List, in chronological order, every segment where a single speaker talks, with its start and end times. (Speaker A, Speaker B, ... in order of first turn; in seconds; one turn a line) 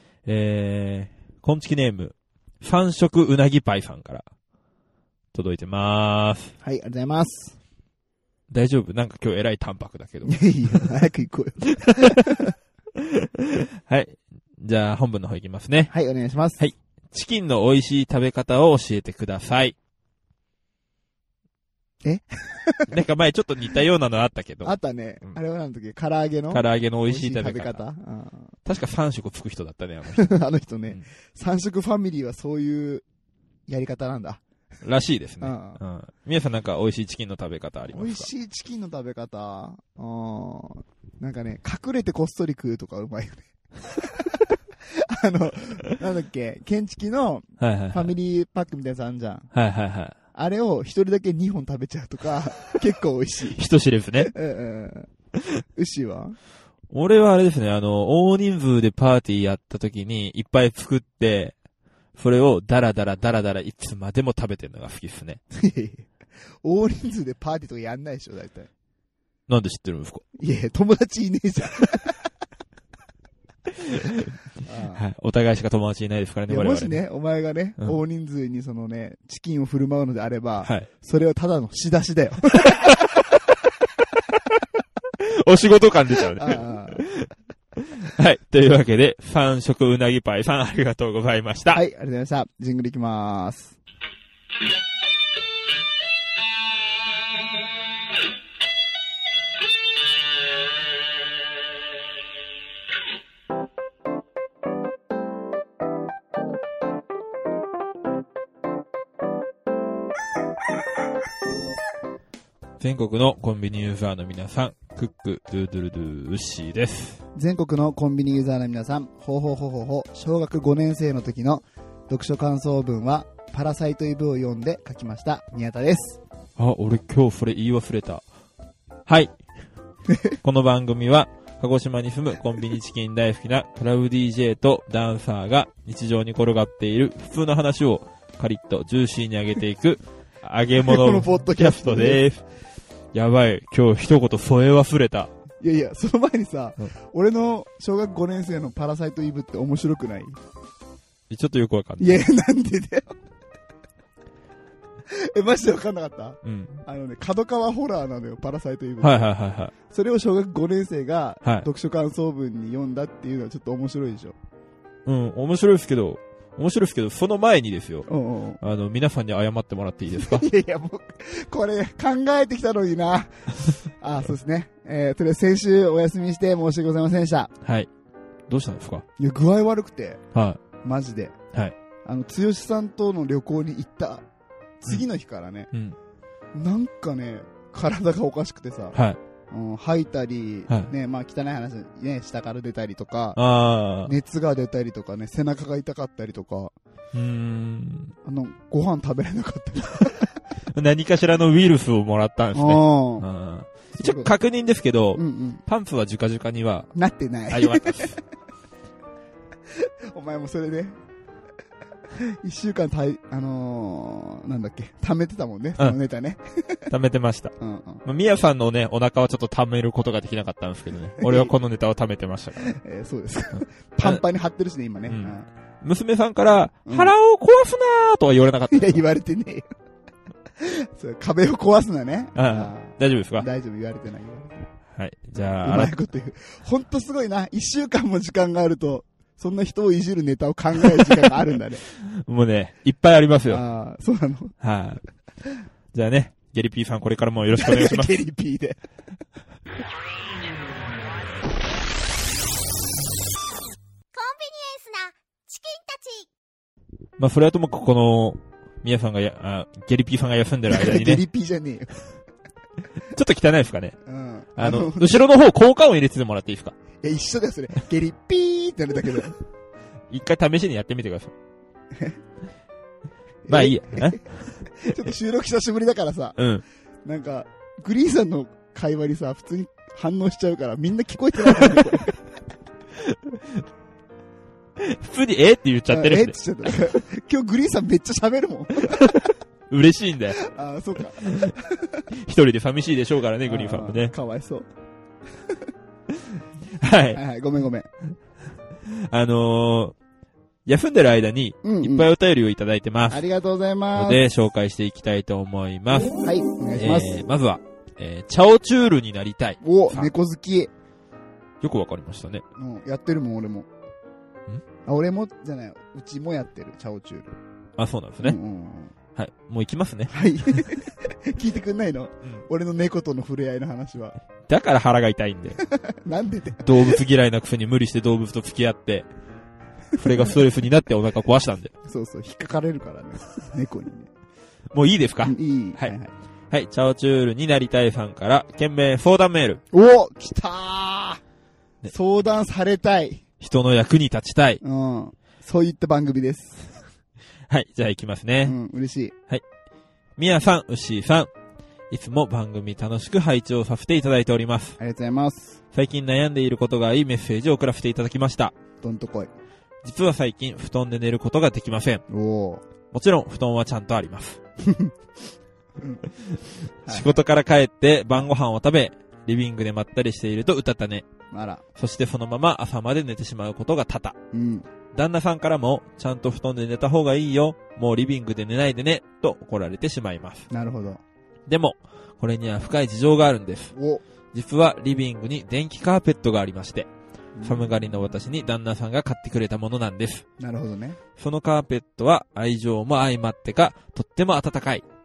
Speaker A: 0.3-4.2
Speaker A: 5.3-6.5
Speaker B: 6.6-7.6
Speaker A: 8.5-10.9
Speaker B: 10.3-12.5
Speaker A: 11.7-12.3
Speaker A: 13.0-15.9
Speaker B: 15.9-16.6
Speaker A: 16.6-19.8
Speaker B: 22.0-23.0
Speaker A: 22.9-25.4
Speaker B: 24.6-28.5
Speaker A: 26.5-27.8
Speaker A: 28.7-30.4
Speaker B: 30.1-33.0
Speaker B: 33.7-34.4
Speaker A: 34.8-38.3
Speaker B: 35.4-35.8
Speaker B: 37.9-49.5
Speaker A: 47.6-48.1
Speaker A: 49.5-50.1
Speaker B: 50.3-53.6
Speaker A: 53.6-54.3
Speaker B: 54.2-55.1
Speaker B: 55.8-56.4
Speaker A: 56.9-61.5
Speaker A: 62.2-65.4
Speaker B: 65.5-66.1
Speaker B: 66.6-68.7
Speaker A: 69.5-70.2
Speaker B: 70.4-72.3
Speaker A: 73.8-74.3
Speaker B: 74.6-75.0
Speaker A: 75.0-77.0
Speaker B: 76.5-83.0
Speaker A: 80.6-80.9
Speaker A: 82.7-83.1
Speaker A: 85.2-87.3
Speaker B: 86.3-87.0
Speaker A: 87.9-91.8
Speaker B: 91.7-93.8
Speaker A: 112.8-117.2
Speaker B: 117.3-126.2
Speaker A: 126.6-128.2
Speaker A: 129.1-129.4
Speaker B: 130.1-130.3
Speaker A: 130.4-142.4
Speaker B: 140.8-142.2
Speaker A: 143.1-145.3
Speaker B: 145.6-150.4
Speaker A: 151.3-152.3
Speaker B: 152.0-153.1
Speaker B: 155.1-159.3
Speaker A: 156.4-156.8
Speaker A: 159.0-159.7
Speaker B: 159.8-164.3
Speaker A: 165.1-168.1
Speaker B: 168.1-168.6
Speaker A: 168.6-170.5
Speaker B: 170.2-177.5
Speaker A: 177.6-177.9
Speaker A: 178.5-179.1
Speaker B: 179.2-180.2
Speaker A: 180.3-180.6
Speaker B: 180.8-181.4
Speaker B: 182.1-184.2
Speaker B: 184.8-185.7
Speaker B: 186.5-189.0
Speaker A: 188.9-189.2
Speaker B: 189.5-193.4
Speaker A: 193.3-194.1
Speaker B: 194.0-196.7
Speaker A: 197.1-198.2
Speaker B: 198.2-200.4
Speaker A: 200.7-206.9
Speaker B: 202.6-203.3
Speaker B: 204.0-204.3
Speaker B: 205.2-205.6
Speaker B: 206.9-208.2
Speaker A: 207.5-208.2
Speaker B: 209.7-211.0
Speaker B: 212.1-216.9
Speaker A: 216.9-217.5
Speaker B: 217.6-218.0
Speaker A: 218.1-222.8
Speaker B: 221.2-221.5
Speaker B: 222.6-225.4
Speaker A: 225.1-229.0
Speaker B: 226.9-227.1
Speaker B: 228.7-229.7
Speaker B: 230.6-234.7
Speaker A: 232.3-233.5
Speaker A: 234.9-235.9
Speaker B: 235.4-241.8
Speaker A: 242.1-243.6
Speaker B: 243.5-244.6
Speaker A: 244.6-245.0
Speaker A: 245.9-248.1
Speaker B: 247.6-248.8
Speaker C: 254.1-256.3
Speaker A: 257.2-261.2
Speaker B: 260.7-262.1
Speaker A: 263.1-264.0
Speaker B: 264.1-265.2
Speaker A: 264.6-266.8
Speaker B: 267.0-269.4
Speaker A: 270.1-271.3
Speaker B: 273.5-274.3
Speaker A: 273.5-275.0
Speaker B: 274.8-276.4
Speaker A: 276.4-276.6
Speaker B: 277.1-282.2
Speaker A: 283.0-283.6
Speaker A: 284.8-286.7
Speaker B: 285.9-289.1
Speaker A: 288.9-290.4
Speaker B: 290.4-292.1
Speaker A: 291.2-291.6
Speaker A: 292.1-294.1
Speaker B: 293.4-294.7
Speaker A: 296.8-297.2
Speaker B: 297.1-297.9
Speaker A: 298.9-299.9
Speaker A: 300.7-303.2
Speaker B: 301.6-302.1
Speaker B: 303.1-304.2
Speaker A: 304.0-306.2
Speaker B: 306.2-307.2
Speaker A: 306.7-310.1
Speaker B: 309.6-310.7
Speaker A: 311.6-312.4
Speaker B: 312.6-313.7
Speaker B: 314.9-317.3
Speaker A: 317.8-318.4
Speaker B: 318.2-318.9
Speaker A: 319.2-320.2
Speaker B: 320.1-324.2
Speaker A: 324.5-325.6
Speaker B: 325.6-327.0
Speaker A: 326.6-329.1
Speaker A: 329.9-331.7
Speaker B: 331.9-334.1
Speaker A: 334.7-335.9
Speaker B: 335.2-336.1
Speaker A: 336.5-339.6
Speaker B: 339.7-341.2
Speaker B: 341.9-343.2
Speaker A: 343.4-344.6
Speaker B: 344.6-346.8
Speaker A: 347.5-348.6
Speaker B: 348.4-349.1
Speaker A: 350.2-351.3
Speaker A: 351.9-354.8
Speaker B: 354.8-355.6
Speaker A: 355.7-358.5
Speaker B: 358.8-359.3
Speaker A: 359.8-362.0
Speaker B: 362.1-362.6
Speaker A: 362.9-364.4
Speaker B: 364.6-364.9
Speaker B: 365.8-366.1
Speaker A: 366.4-371.1
Speaker B: 366.9-367.1
Speaker B: 371.3-371.6
Speaker A: 371.8-374.2
Speaker B: 374.3-374.7
Speaker A: 374.9-380.5
Speaker B: 380.5-381.0
Speaker A: 381.5-383.7
Speaker B: 383.7-384.0
Speaker A: 384.3-386.9
Speaker B: 387.4-387.7
Speaker A: 387.4-390.2
Speaker B: 390.4-391.0
Speaker A: 391.2-394.9